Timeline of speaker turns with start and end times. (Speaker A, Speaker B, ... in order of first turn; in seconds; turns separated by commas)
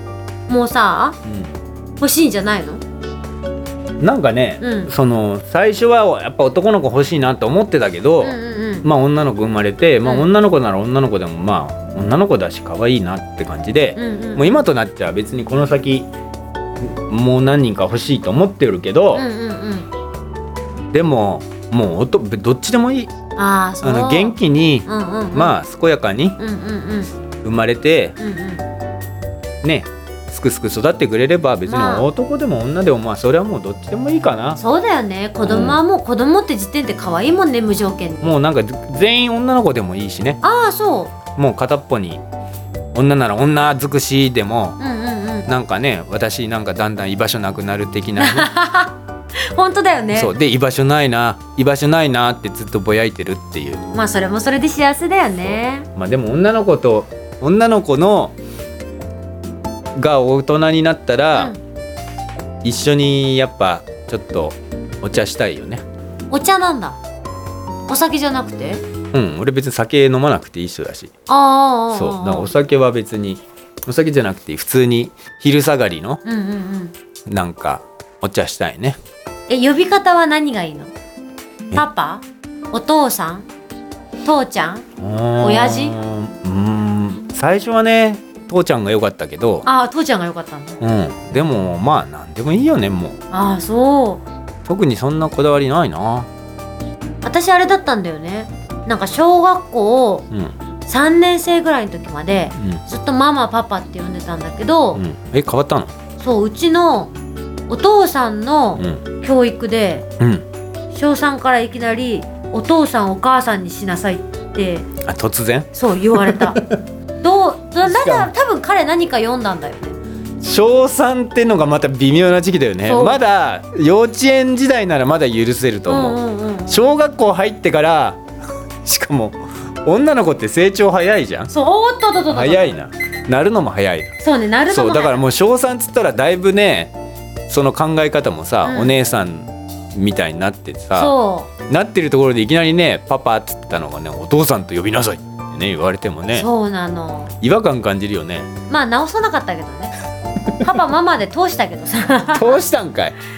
Speaker A: 0.5-1.2, Speaker B: 1.3-1.5, Speaker A: 2.0-2.8, Speaker B: 4.0-16.1, Speaker A: 4.6-4.9, Speaker A: 8.2-8.9, Speaker A: 13.9-14.6, Speaker B: 16.8-19.2, Speaker A: 19.1-19.9, Speaker B: 20.9-23.1, Speaker A: 23.4-25.6, Speaker B: 23.8-26.4, Speaker A: 26.4-27.1, Speaker B: 27.4-28.2, Speaker A: 28.2-28.6, Speaker B: 29.6-34.6, Speaker A: 31.7-32.1, Speaker A: 34.6-38.4, Speaker B: 35.4-35.8, Speaker B: 38.2-40.4, Speaker A: 40.4-41.2, Speaker B: 41.3-42.2, Speaker B: 42.9-44.8, Speaker A: 44.8-45.5, Speaker B: 45.5-48.5, Speaker A: 48.2-48.9, Speaker A: 49.5-50.3, Speaker B: 50.1-53.8, Speaker A: 53.9-55.9, Speaker B: 55.4-58.4, Speaker B: 60.0-61.5, Speaker B: 62.6-65.8, Speaker A: 66.3-67.0, Speaker A: 67.9-68.8, Speaker B: 69.1-71.1, Speaker A: 71.3-72.5, Speaker B: 71.9-76.2, Speaker A: 76.2-76.9, Speaker B: 77.3-79.0, Speaker A: 79.5-80.9, Speaker A: 81.7-83.5, Speaker A: 84.2-84.9, Speaker B: 85.0-89.7, Speaker A: 85.4-86.0, Speaker A: 89.7-90.8, Speaker B: 90.8-93.2, Speaker A: 93.3-94.2, Speaker B: 94.7-96.3, Speaker A: 97.2-100.3, Speaker B: 100.3-100.6, Speaker A: 100.9-105.0, Speaker B: 105.0-105.9, Speaker A: 106.2-107.1, Speaker A: 107.7-110.1, Speaker A: 110.9-114.9, Speaker B: 115.0-116.8, Speaker A: 115.7-116.7, Speaker A: 117.2-120.0, Speaker B: 117.8-118.3, Speaker B: 120.4-128.2, Speaker A: 122.8-123.2, Speaker A: 125.9-126.9, Speaker B: 128.8-131.5, Speaker A: 131.5-132.7, Speaker B: 132.3-134.1, Speaker A: 134.2-135.2, Speaker B: 134.7-136.9, Speaker B: 137.5-141.2, Speaker A: 138.6-139.0, Speaker A: 140.9-141.5, Speaker B: 141.7-146.5, Speaker A: 146.3-147.3, Speaker B: 147.4-148.5, Speaker A: 148.7-149.9, Speaker A: 150.6-152.6, Speaker B: 152.3-153.2